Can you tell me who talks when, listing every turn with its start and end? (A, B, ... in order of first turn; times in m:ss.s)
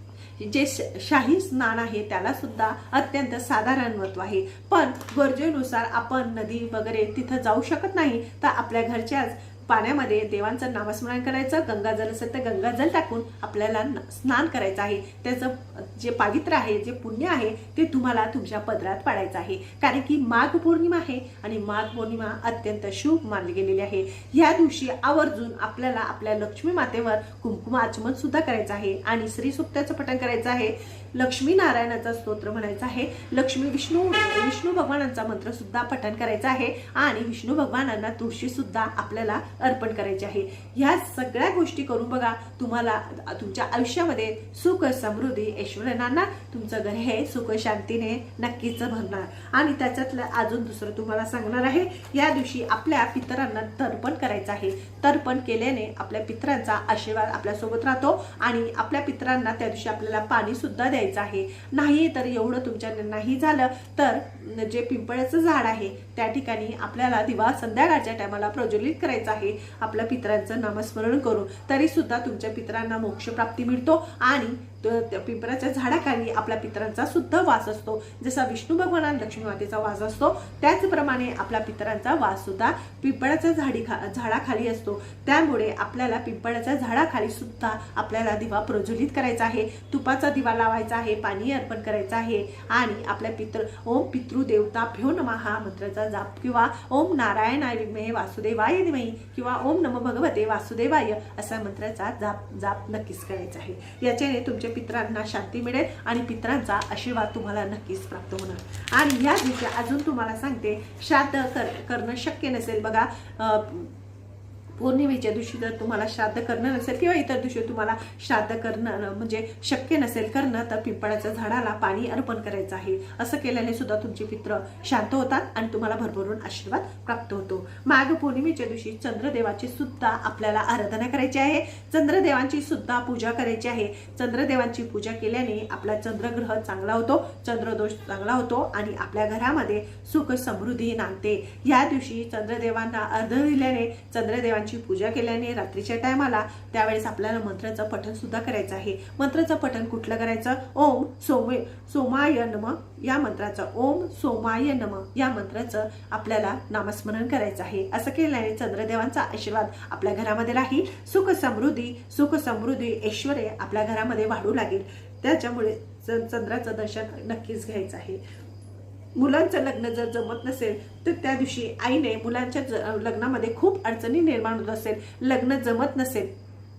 0:00.4-1:53.9 A
1:54.8-2:48.2 A
2:49.1-2:56.3 A